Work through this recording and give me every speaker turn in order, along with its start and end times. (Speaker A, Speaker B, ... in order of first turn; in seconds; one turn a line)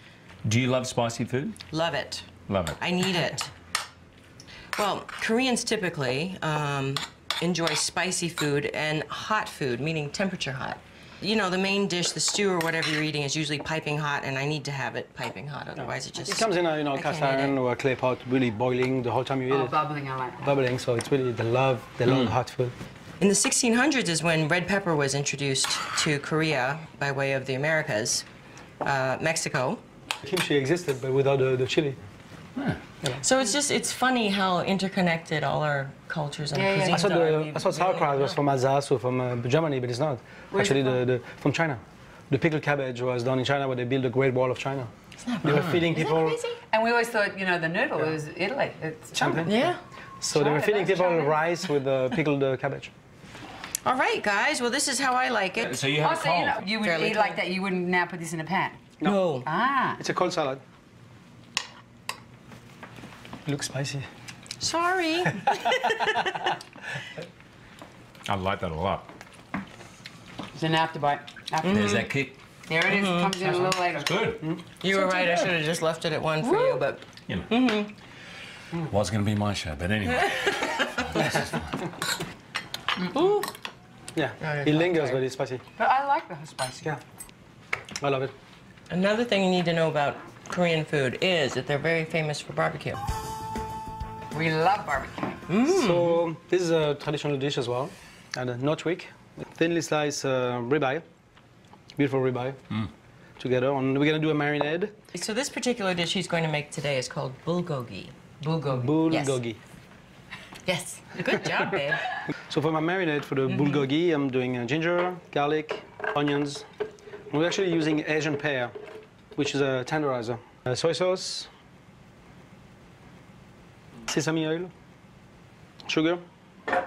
Speaker A: 0.4-1.6
Speaker B: 1.7-3.5
Speaker A: 2.5-2.8
Speaker B: 4.8-17.5
Speaker C: 15.8-19.8
Speaker D: 19.5-20.4
Speaker C: 20.4-22.7
Speaker A: 22.1-22.3
Speaker B: 23.2-28.2
Speaker B: 28.8-29.8
Speaker C: 30.2-32.0
Speaker B: 33.2-38.4
Speaker D: 36.5-37.7
Speaker C: 36.9-44.9
Speaker D: 40.5-41.0
Speaker B: 45.2-46.5
Speaker C: 45.4-46.4
Speaker D: 46.0-49.5
Speaker C: 49.1-49.5
Speaker B: 49.4-49.8
Speaker C: 50.2-52.9
Speaker D: 50.3-51.4
Speaker B: 53.8-55.8
Speaker A: 55.6-56.7
Speaker D: 56.0-58.8
Speaker B: 56.8-57.4
Speaker C: 59.0-59.3
Speaker B: 59.0-59.5
Speaker D: 59.4-60.0
Speaker C: 60.0-60.6
Speaker C: 63.5-64.1
Speaker B: 64.6-66.5
Speaker A: 68.2-69.1
Speaker D: 70.5-72.0
Speaker B: 71.6-72.1
Speaker A: 71.6-72.3
Speaker D: 72.7-74.3
Speaker B: 72.8-73.4
Speaker A: 73.5-74.5
Speaker B: 74.8-77.9
Speaker D: 75.0-75.3
Speaker D: 76.4-76.8
Speaker A: 78.8-81.6
Speaker B: 80.2-80.5
Speaker B: 83.1-83.5
Speaker C: 84.1-85.6
Speaker B: 84.4-85.2
Speaker D: 85.8-86.9
Speaker C: 88.0-88.3
Speaker B: 88.9-93.0
Speaker D: 94.3-95.4
Speaker B: 95.5-96.2
Speaker C: 95.7-101.0
Speaker C: 102.0-102.6
Speaker C: 103.4-104.9
Speaker B: 105.1-108.1
Speaker D: 108.4-109.1
Speaker C: 108.7-109.6
Speaker B: 109.1-109.4
Speaker D: 110.7-111.6
Speaker B: 111.1-112.0
Speaker C: 112.5-116.7
Speaker B: 113.5-113.8
Speaker C: 117.3-118.7
Speaker C: 119.3-121.5
Speaker C: 124.1-124.7
Speaker C: 125.9-126.2